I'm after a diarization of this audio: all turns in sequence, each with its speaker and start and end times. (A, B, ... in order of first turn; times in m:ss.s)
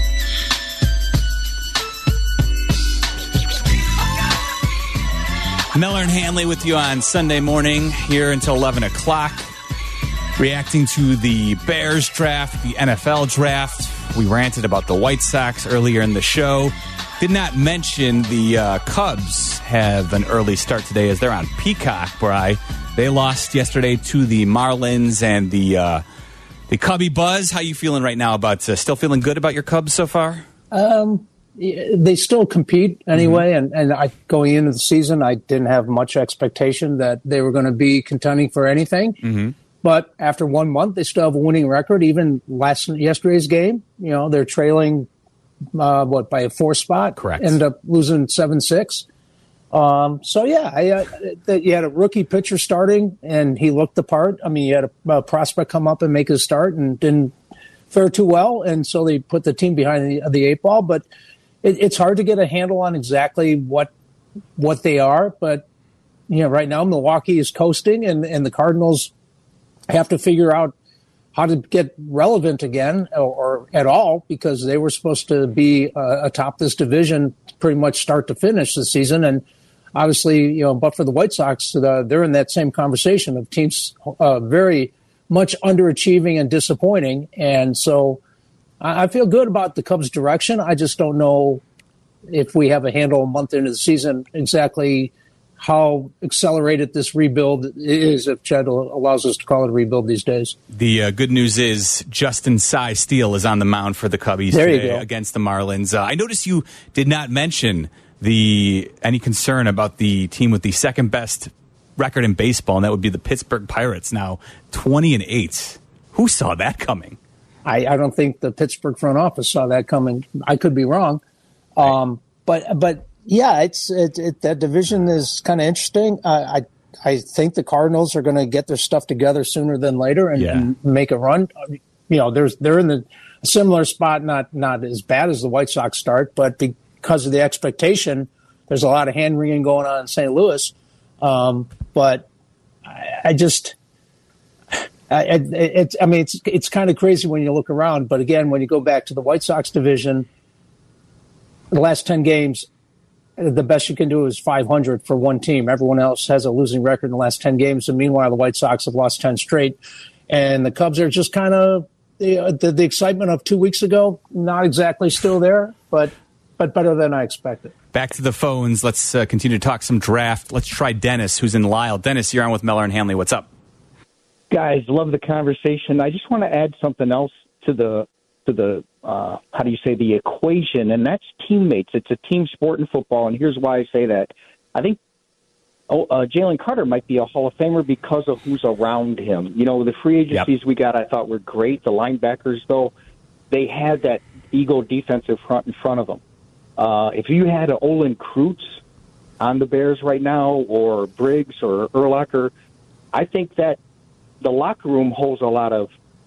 0:05.7-0:09.5 A
0:10.4-0:26.0 A
0:26.7-0:30.4 A
0:30.7-0:39.2 B
0:33.2-0:33.4 A
0:39.2-0:39.5 A
0:39.8-0:45.1 B
0:45.8-0:49.0 B
0:47.2-0:47.6 A
0:49.7-0:57.3 B
0:57.9-1:01.0 B
1:01.6-1:03.9 B
1:04.6-1:05.6 B
1:06.3-1:09.1 B
1:09.9-1:10.7 B
1:11.4-1:19.4 B
1:20.0-1:28.2 B
1:28.8-1:31.6 B
1:32.3-1:40.6 B
1:40.7-1:57.2 A
1:44.5-1:45.0 B
1:57.6-2:01.2 B
2:01.8-2:11.5 B
2:10.4-2:10.7 A
2:12.1-2:22.3 B
2:22.9-2:23.8 B
2:25.1-2:30.3 B
2:31.7-2:32.7 B
2:33.4-2:39.8 B
2:40.3-2:47.7 B
2:47.9-2:53.5 A
2:54.5-3:05.0 C
3:05.9-3:12.9 C
3:13.5-3:16.2 C
3:16.8-3:18.8 C
3:19.4-3:22.5 C
3:23.1-3:23.8 C
3:24.4-3:25.9 C